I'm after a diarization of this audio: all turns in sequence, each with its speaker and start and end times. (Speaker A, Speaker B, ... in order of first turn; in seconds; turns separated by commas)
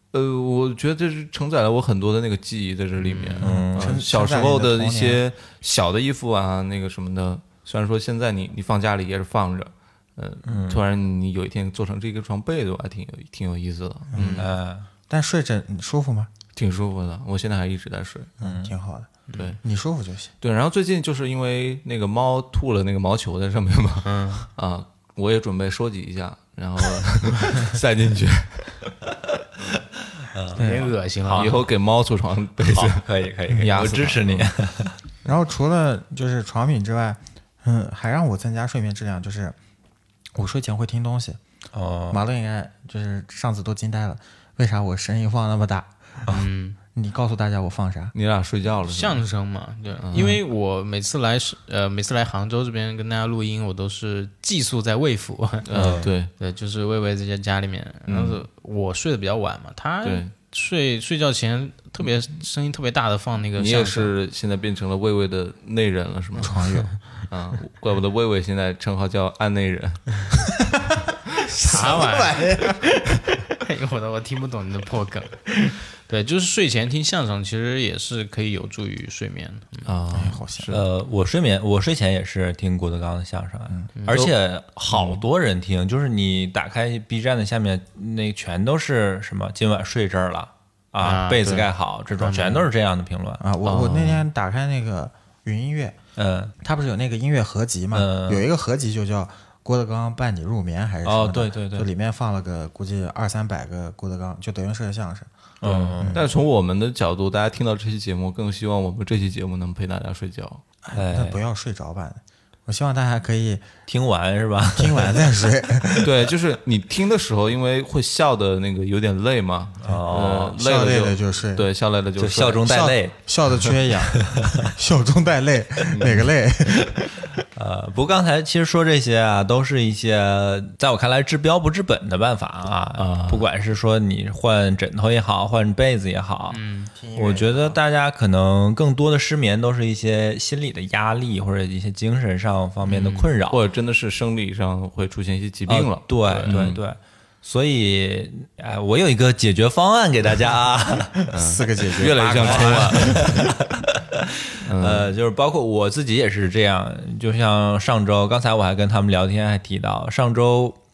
Speaker A: 0.1-14.5, Speaker B: 3.0-3.4, Speaker C: 3.4-4.0, Speaker D: 3.4-5.2, Speaker C: 10.4-10.8, Speaker D: 14.1-14.5, Speaker C: 14.3-14.9, Speaker D: 15.1-16.3, Speaker A: 16.6-18.3, Speaker D: 18.4-20.3, Speaker C: 18.4-18.7, Speaker B: 19.3-19.6, Speaker A: 19.3-19.6, Speaker A: 20.4-28.9, Speaker B: 24.0-24.5, Speaker C: 30.2-31.6, Speaker B: 30.5-31.5, Speaker D: 30.6-30.9, Speaker A: 31.3-34.5, Speaker C: 32.7-35.0, Speaker D: 35.2-39.5, Speaker D: 40.3-41.4, Speaker C: 41.7-42.2, Speaker D: 42.1-45.9, Speaker B: 46.3-46.8, Speaker D: 46.9-48.1, Speaker A: 48.1-49.2, Speaker B: 48.9-64.1, Speaker A: 55.7-56.3, Speaker C: 55.7-56.1, Speaker A: 58.1-58.4, Speaker A: 60.0-60.3, Speaker A: 63.6-66.7, Speaker D: 66.4-66.9, Speaker B: 66.4-66.9, Speaker A: 67.3-70.2, Speaker D: 71.4-72.9, Speaker B: 71.6-79.9, Speaker A: 79.8-80.8, Speaker D: 80.1-80.7, Speaker C: 80.7-94.2, Speaker B: 84.0-84.3, Speaker B: 91.0-92.7, Speaker D: 93.4-96.0, Speaker C: 96.2-96.5, Speaker D: 96.6-105.3, Speaker C: 97.9-98.5, Speaker C: 101.0-101.9, Speaker C: 105.6-106.2, Speaker A: 105.6-110.6, Speaker D: 106.0-106.3, Speaker D: 110.8-113.7, Speaker C: 110.9-111.4, Speaker C: 113.9-115.2, Speaker D: 114.8-116.2, Speaker A: 116.0-122.6, Speaker C: 119.8-120.6, Speaker D: 120.5-121.7, Speaker C: 122.2-123.1, Speaker D: 122.6-127.0, Speaker C: 124.3-124.7, Speaker A: 125.9-126.3, Speaker C: 127.5-136.6, Speaker A: 132.9-133.5, Speaker B: 136.5-136.9, Speaker D: 136.9-137.8, Speaker C: 137.1-143.6, Speaker B: 142.8-143.3, Speaker A: 143.5-146.8, Speaker C: 145.7-151.2, Speaker D: 151.3-153.5, Speaker A: 151.3-153.5, Speaker C: 152.4-160.8, Speaker A: 154.7-155.1